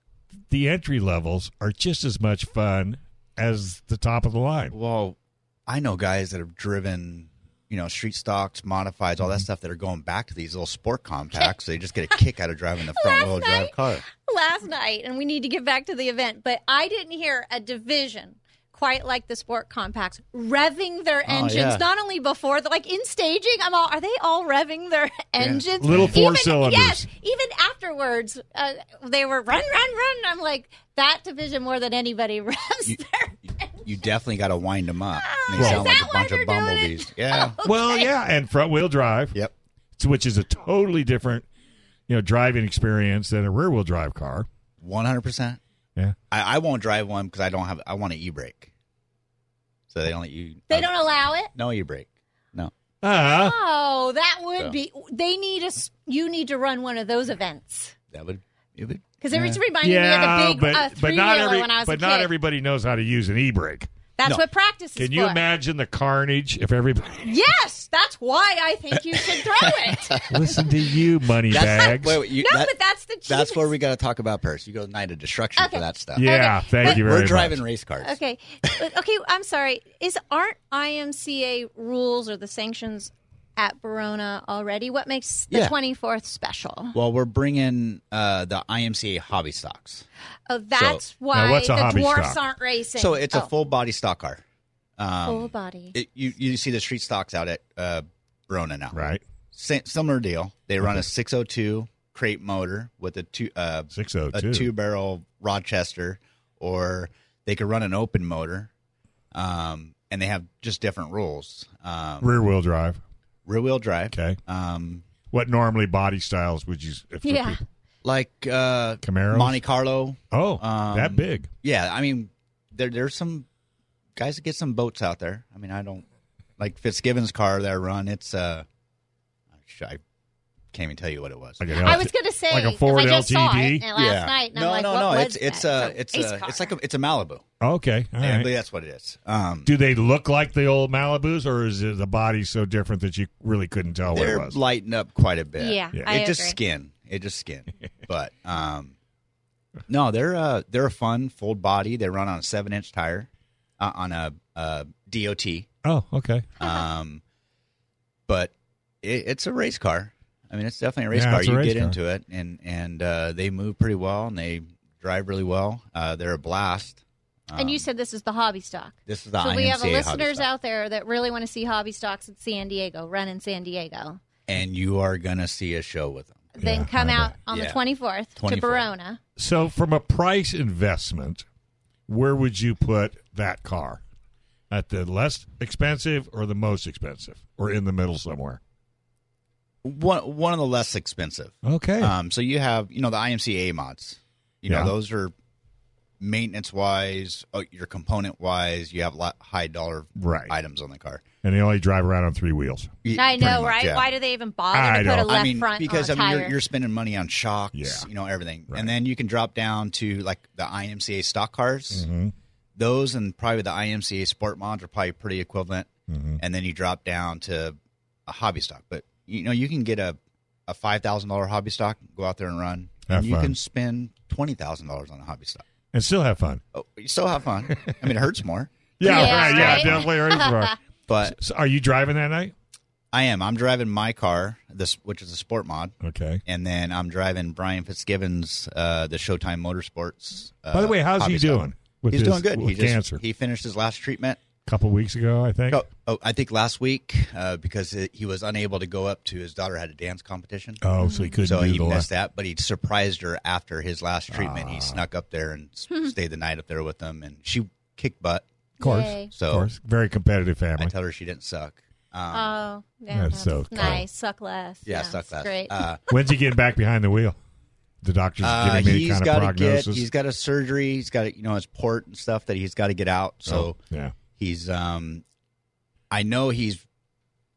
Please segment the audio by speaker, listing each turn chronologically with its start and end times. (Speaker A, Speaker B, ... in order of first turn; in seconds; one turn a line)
Speaker A: 0.5-4.7
Speaker B: 4.7-5.2
Speaker B: 5.7-14.0
Speaker C: 12.9-33.8
Speaker B: 21.2-21.8
Speaker B: 25.4-26.2
Speaker A: 25.8-27.1
Speaker B: 32.9-37.6
Speaker C: 35.2-38.1
Speaker A: 35.5-35.9
Speaker A: 37.6-39.4
Speaker A: 40.0-41.5
Speaker A: 42.1-44.5
Speaker B: 44.8-45.6
Speaker B: 46.3-48.7
Speaker B: 49.9-52.7
Speaker C: 50.7-51.5
Speaker A: 53.0-53.5
Speaker C: 53.2-57.9
Speaker B: 58.1-59.6
Speaker C: 59.2-62.3
Speaker A: 59.8-63.9
Speaker C: 64.2-65.4
Speaker A: 65.0-67.2
Speaker C: 67.2-70.2
Speaker B: 68.9-70.7
Speaker A: 70.3-72.2
Speaker B: 71.5-72.7
Speaker C: 71.5-73.7
Speaker B: 73.3-78.8
Speaker C: 75.6-77.0
Speaker A: 76.1-77.6
Speaker C: 78.0-87.0
Speaker B: 85.5-85.7
Speaker B: 86.9-90.0
Speaker C: 90.5-93.5
Speaker B: 90.7-91.0
Speaker A: 91.3-92.4
Speaker B: 93.0-94.4
Speaker B: 95.0-108.7
Speaker C: 95.2-95.9
Speaker A: 98.9-99.2
Speaker A: 103.9-104.7
Speaker B: 109.3-112.3
Speaker A: 112.2-113.0
Speaker B: 113.5-115.0
Speaker A: 114.1-114.4
Speaker A: 115.3-117.6
Speaker C: 117.2-117.6
Speaker B: 118.0-123.5
Speaker A: 119.0-119.6
Speaker A: 120.3-121.5
Speaker B: 124.2-126.0
Speaker B: 126.6-128.7
Speaker B: 129.6-130.0
Speaker B: 130.7-132.0
Speaker A: 131.6-133.8
Speaker C: 131.8-136.7
Speaker B: 133.9-137.5
Speaker A: 137.6-138.5
Speaker B: 138.2-139.7
Speaker A: 139.7-144.6
Speaker B: 144.1-148.9
Speaker C: 145.6-146.6
Speaker B: 149.9-155.7
Speaker A: 155.8-156.5
Speaker B: 156.6-157.2
Speaker C: 156.6-156.9
Speaker B: 158.3-167.8
Speaker A: 161.1-161.9
Speaker C: 167.5-174.2
Speaker B: 169.1-170.5
Speaker B: 174.5-176.5
Speaker C: 176.5-179.2
Speaker A: 176.6-177.3
Speaker B: 177.5-177.8
Speaker B: 178.3-178.9
Speaker A: 179.4-181.4
Speaker A: 182.1-184.0
Speaker A: 184.7-188.6
Speaker B: 189.8-195.3
Speaker A: 191.6-192.1
Speaker B: 196.2-201.2
Speaker A: 200.2-200.5
Speaker A: 201.4-203.6
Speaker B: 203.0-204.1
Speaker C: 203.1-206.6
Speaker A: 204.7-205.4
Speaker B: 205.2-212.1
Speaker A: 207.7-208.1
Speaker A: 211.9-212.3
Speaker B: 212.8-225.6
Speaker A: 216.1-216.4
Speaker A: 223.1-223.5
Speaker A: 225.9-226.6
Speaker B: 226.7-230.1
Speaker A: 229.0-232.5
Speaker C: 229.0-230.7
Speaker B: 231.1-231.3
Speaker B: 233.1-235.9
Speaker A: 236.0-236.4
Speaker B: 236.4-244.4
Speaker A: 240.7-243.2
Speaker A: 244.6-245.8
Speaker B: 245.7-250.8
Speaker A: 250.8-252.1
Speaker C: 251.0-251.4
Speaker B: 251.4-258.4
Speaker A: 254.3-255.0
Speaker C: 258.8-259.3
Speaker A: 258.8-260.9
Speaker B: 259.3-259.7
Speaker B: 260.8-262.6
Speaker C: 262.3-265.8
Speaker A: 263.1-264.0
Speaker B: 264.9-266.0
Speaker A: 266.1-267.4
Speaker A: 268.0-270.0
Speaker B: 268.4-273.8
Speaker A: 273.4-274.1
Speaker B: 274.4-275.2
Speaker B: 276.1-276.8